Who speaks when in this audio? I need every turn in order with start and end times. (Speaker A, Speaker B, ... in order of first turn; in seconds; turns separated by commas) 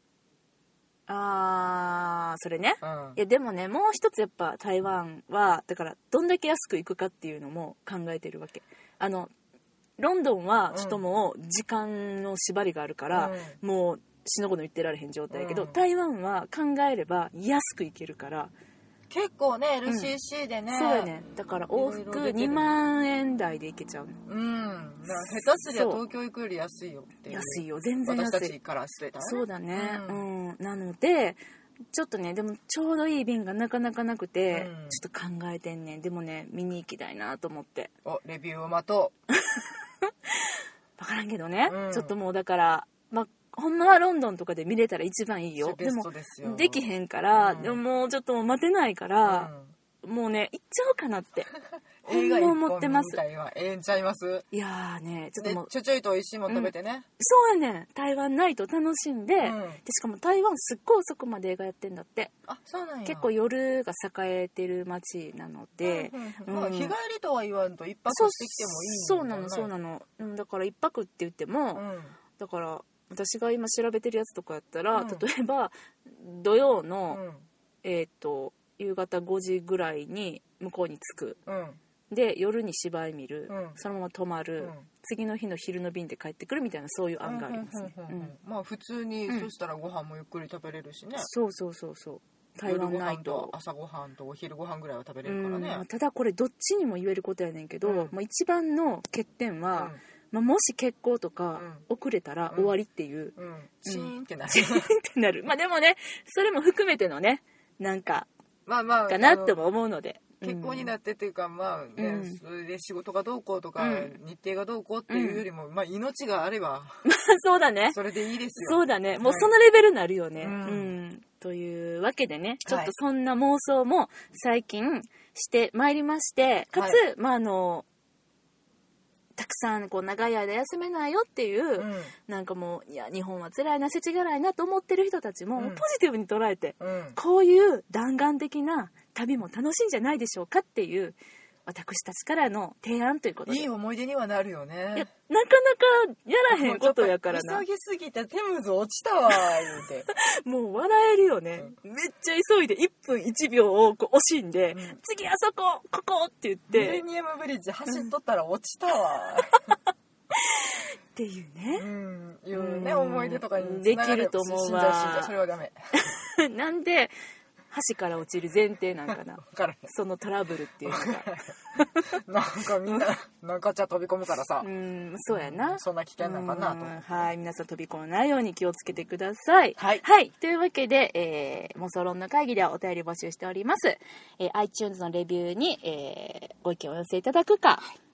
Speaker A: 1.1-9.3, Speaker B: 2.8-3.2, Speaker A: 10.0-18.5, Speaker B: 10.7-11.0, Speaker B: 13.1-13.6, Speaker B: 15.3-15.8, Speaker B: 19.1-21.1, Speaker A: 19.9-20.1, Speaker A: 20.7-24.2, Speaker B: 21.7-22.6, Speaker B: 24.3-30.2, Speaker A: 25.7-26.0, Speaker A: 27.3-28.5, Speaker A: 29.2-31.4, Speaker A: 31.9-37.9, Speaker B: 34.5-35.0, Speaker B: 38.0-39.1, Speaker A: 39.3-49.5, Speaker B: 41.6-42.1, Speaker B: 45.6-47.8, Speaker B: 49.2-49.7, Speaker A: 50.0-51.5, Speaker B: 52.0-54.5, Speaker A: 52.1-53.2, Speaker A: 54.5-55.7, Speaker B: 55.4-57.0, Speaker A: 56.5-62.3, Speaker B: 59.4-59.8, Speaker B: 62.5-63.3, Speaker A: 63.0-66.9, Speaker B: 65.8-69.7, Speaker A: 68.1-71.8, Speaker B: 71.7-72.2, Speaker A: 72.3-77.2, Speaker B: 74.9-75.2, Speaker B: 77.1-77.5, Speaker A: 77.8-81.4, Speaker B: 81.5-81.8, Speaker A: 82.1-88.3, Speaker B: 83.5-83.8, Speaker B: 84.6-84.8, Speaker B: 87.2-91.3, Speaker A: 91.2-93.5, Speaker B: 92.7-95.8, Speaker A: 95.2-103.3, Speaker B: 97.8-98.1, Speaker B: 101.6-101.8, Speaker B: 103.4-104.9, Speaker A: 103.8-108.3, Speaker B: 108.7-109.6, Speaker A: 109.1-110.9, Speaker B: 110.4-116.9, Speaker A: 112.0-112.4, Speaker A: 113.8-114.1, Speaker A: 115.1-115.4, Speaker A: 117.0-118.0, Speaker B: 117.9-119.5, Speaker A: 118.6-127.8, Speaker B: 120.4-120.9, Speaker B: 122.6-122.9, Speaker B: 126.7-127.0, Speaker A: 129.4-143.7, Speaker B: 131.8-132.1, Speaker B: 135.6-135.8, Speaker B: 136.8-137.2, Speaker B: 143.5-145.1, Speaker A: 144.9-147.6, Speaker B: 146.5-150.1, Speaker A: 150.1-157.0, Speaker B: 154.7-155.0, Speaker B: 156.7-159.7, Speaker A: 160.3-161.9, Speaker B: 161.7-165.8, Speaker A: 162.5-165.3, Speaker A: 166.0-167.1, Speaker A: 167.7-172.2, Speaker B: 169.1-169.9, Speaker B: 170.8-171.5, Speaker B: 172.2-174.7, Speaker A: 174.6-187.8, Speaker B: 175.3-177.0, Speaker B: 179.8-180.0